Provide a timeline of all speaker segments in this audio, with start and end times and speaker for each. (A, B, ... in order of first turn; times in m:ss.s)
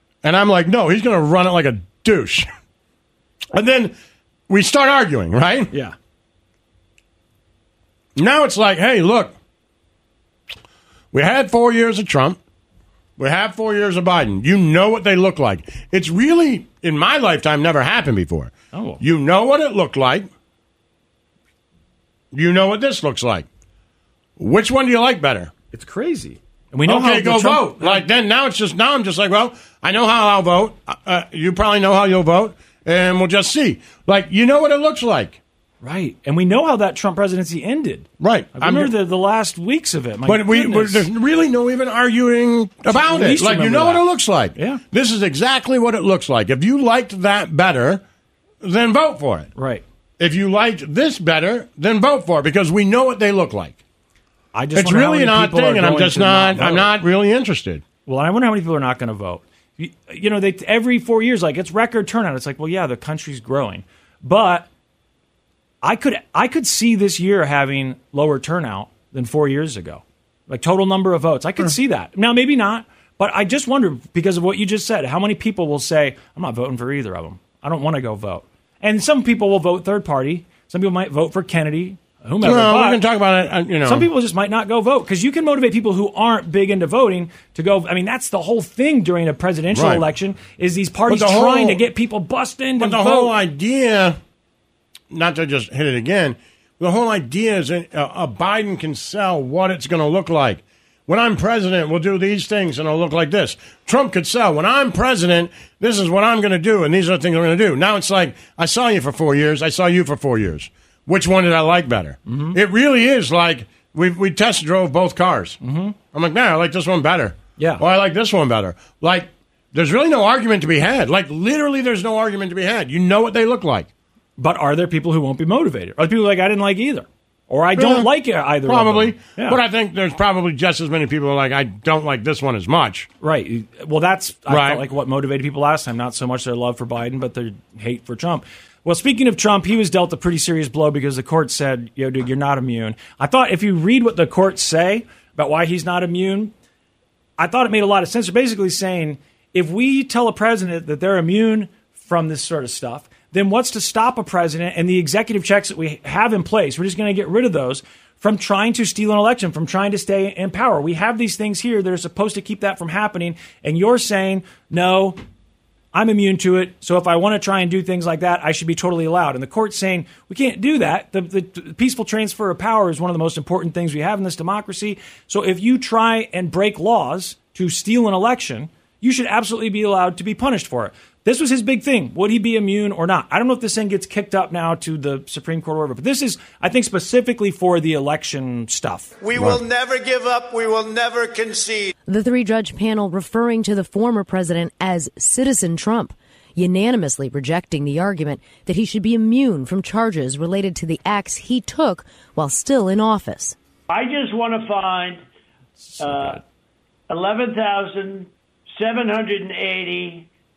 0:00.2-0:02.5 A
0:03.5-0:04.0 A
0:04.5-0:05.7 A
0:08.2-0:09.4 A
0:11.1-0:12.4 A
0:13.2-0:20.3 A
0:18.7-0:19.0 B
0:22.3-0:23.5 A
0:24.4-0:25.5 A
0:25.7-0:28.0 B
0:26.9-0:35.4 A
0:35.8-0:41.1 B
0:38.2-0:38.9 A
0:40.3-0:48.0 A
0:42.9-0:44.0 B
0:44.6-0:44.8 B
0:48.6-0:49.5 A
0:49.6-0:49.8 B
0:50.2-0:53.8 A
0:54.5-0:56.9 B
0:54.8-0:57.8 A
0:58.0-1:04.7 B
1:05.8-1:23.0 B
1:22.4-1:24.1 A
1:23.8-1:33.3 B
1:29.7-1:30.0 A
1:31.1-1:31.8 A
1:32.8-1:34.2 A
1:35.1-1:55.6 A
1:52.3-1:52.6 B
1:55.6-1:56.0 B
1:56.1-2:03.9 A
1:57.6-1:57.8 B
2:04.4-2:09.6 B
2:07.8-2:08.1 A
2:08.6-2:13.1 A
2:13.2-2:26.5 B
2:14.5-2:14.8 A
2:27.4-2:45.2 B
2:45.9-3:09.1 B
3:09.2-3:11.9 C
3:12.1-3:23.6 D
3:23.9-3:25.2 E
3:25.8-3:26.4 B
3:26.0-3:26.4 E
3:27.1-3:30.3 E